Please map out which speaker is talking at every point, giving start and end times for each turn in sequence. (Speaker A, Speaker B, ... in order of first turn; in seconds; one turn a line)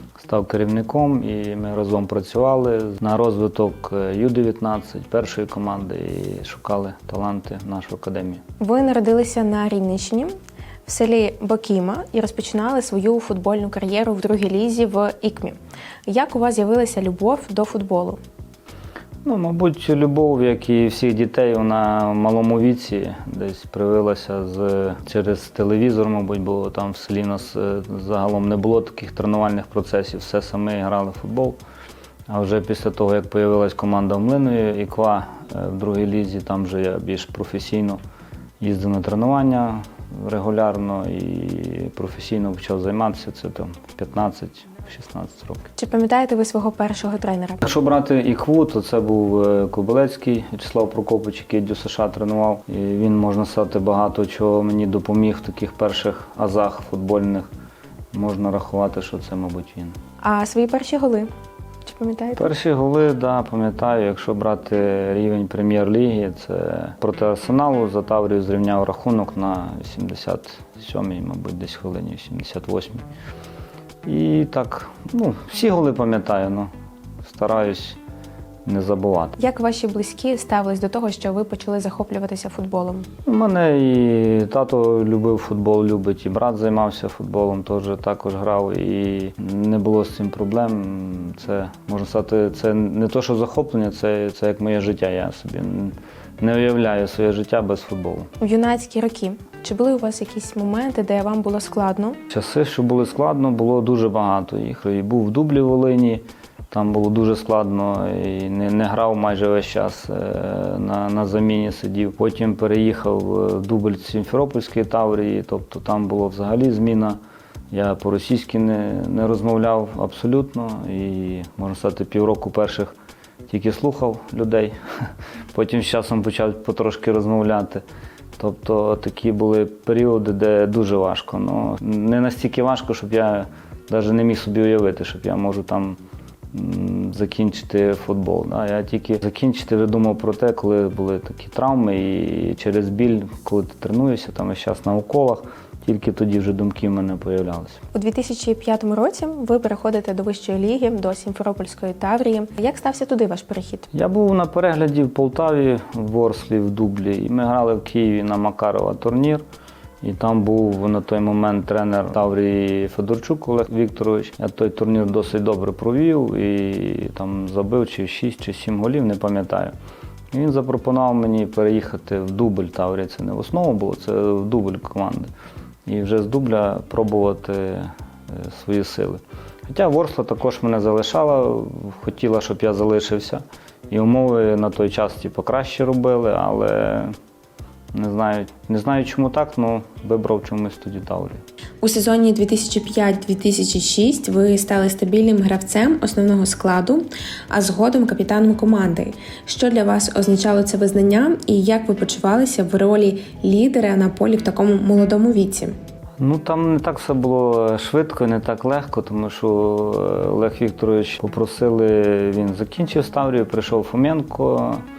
Speaker A: 0.2-8.4
Speaker B: 8.6-10.3
Speaker B: 10.8-18.2
Speaker A: 19.2-31.6
Speaker A: 32.3-38.0
Speaker A: 38.6-45.7
Speaker B: 45.8-47.6
Speaker A: 47.6-57.5
Speaker A: 58.1-60.0
Speaker B: 60.2-61.3
Speaker B: 61.8-62.5
Speaker A: 62.4-73.0
Speaker A: 74.0-76.7
Speaker A: 77.2-78.0
Speaker A: 78.7-79.3
Speaker B: 79.4-83.1
Speaker A: 83.2-98.3
Speaker B: 98.4-102.2
Speaker A: 102.3-117.2
Speaker A: 117.7-122.9
Speaker A: 123.5-124.8
Speaker A: 125.5-127.8
Speaker A: 128.4-136.0
Speaker A: 136.5-147.8
Speaker B: 147.9-153.9
Speaker A: 153.9-159.4
Speaker A: 160.0-169.7
Speaker A: 170.3-175.3
Speaker A: 175.8-187.1
Speaker A: 187.9-191.4
Speaker B: 191.8-205.7
Speaker A: 206.2-214.8